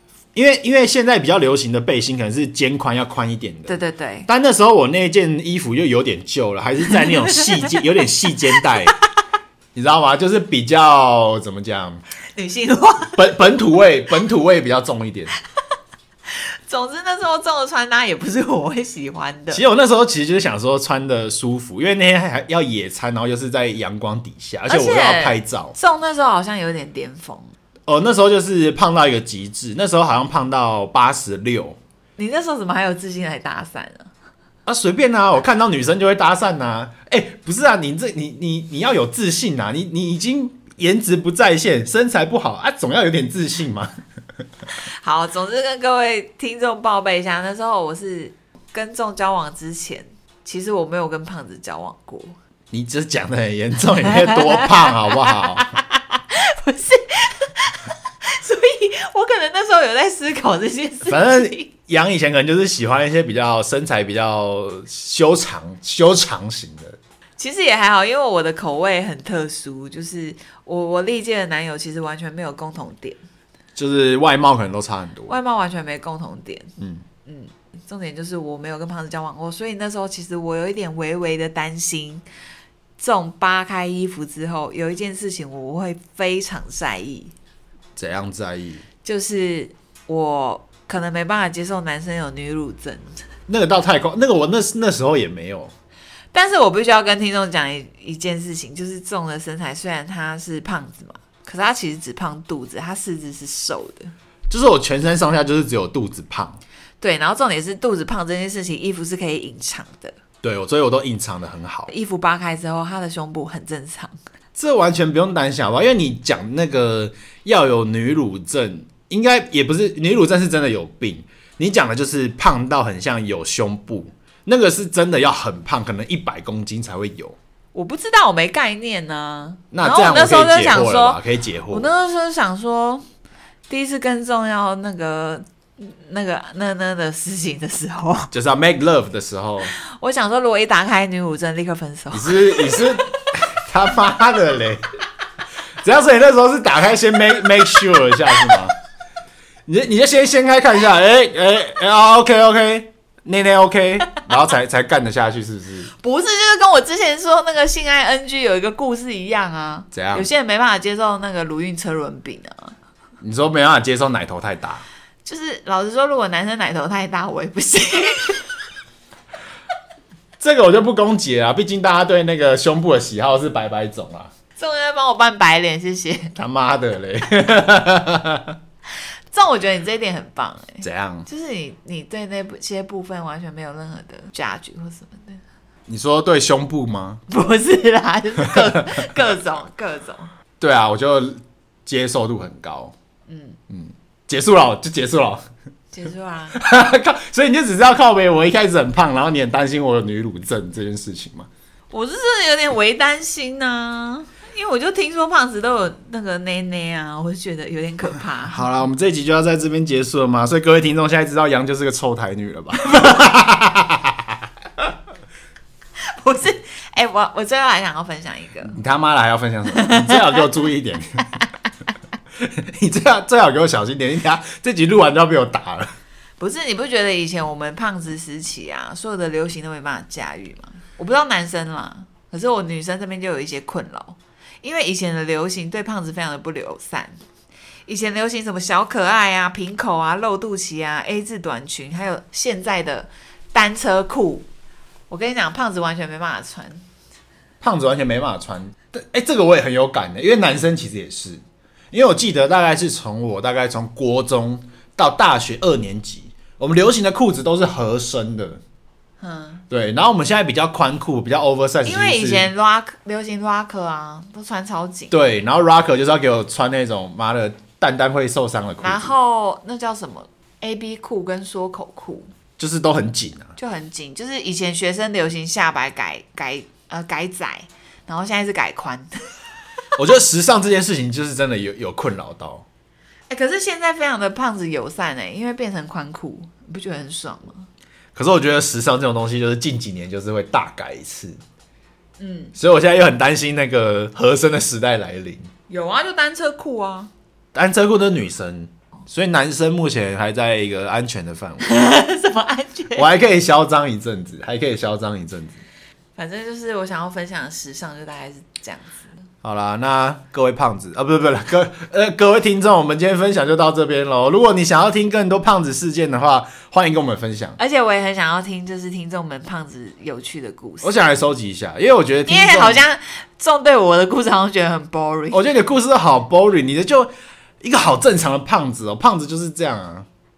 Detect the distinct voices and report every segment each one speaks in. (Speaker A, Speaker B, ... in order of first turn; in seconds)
Speaker A: 0.3-3.8, 4.3-9.0, 9.8-12.0, 13.1-15.3, 19.5-25.8, 27.9-31.8, 34.6-43.9, 52.7-55.7, 61.1-67.0, 73.8-75.4, 76.8-77.0, 88.0-88.8, 93.5-95.7, 104.5-106.6, 110.4-111.9, 114.6-127.4, 129.7-131.9, 138.3-139.7, 142.1-144.8, 145.8-148.7, 149.7-155.9, 159.9-160.3, 163.2-164.8, 170.4-174.3, 176.4-178.6, 180.8-181.3, 185.9-187.2, 190.6-192.9, 193.7-195.4, 196.6-201.5, 208.5-214.8, 218.7-221.3, 222.4-225.9, 247.6-258.6, 259.7-262.5, 265.1-269.1, 272.6-273.5, 280.0-282.6, 288.1-291.4, 292.6-295.5, 297.5-301.6, 303.0-305.6, 309.4-317.6, 320.8-322.8, 325.3-330.1
Speaker B: 3.7-4.3, 6.9-7.8, 12.3-13.2, 16.3-19.6, 24.7-27.5, 32.2-34.1, 44.8-52.4, 54.1-61.7, 67.4-73.2, 75.3-82.2, 83.0-87.3, 89.0-93.3, 96.3-104.1, 107.0-110.2, 111.9-114.1, 127.7-131.2, 131.7-133.0, 133.7-138.3, 139.8-142.9, 156.0-162.7, 165.2-168.6, 174.6-176.3, 179.3-185.4, 187.3-190.3, 193.3-193.6, 195.9-196.6, 201.9-208.7, 216.0-218.8, 219.7-220.4, 226.4-237.2, 237.9-244.5, 245.1-246.8, 259.2-259.6, 261.9-265.1, 268.8-272.3, 273.6-279.3, 283.3-287.7, 292.2-292.6, 295.7-297.1, 301.6-303.1, 306.2-309.1, 317.6-321.0, 322.3-325.4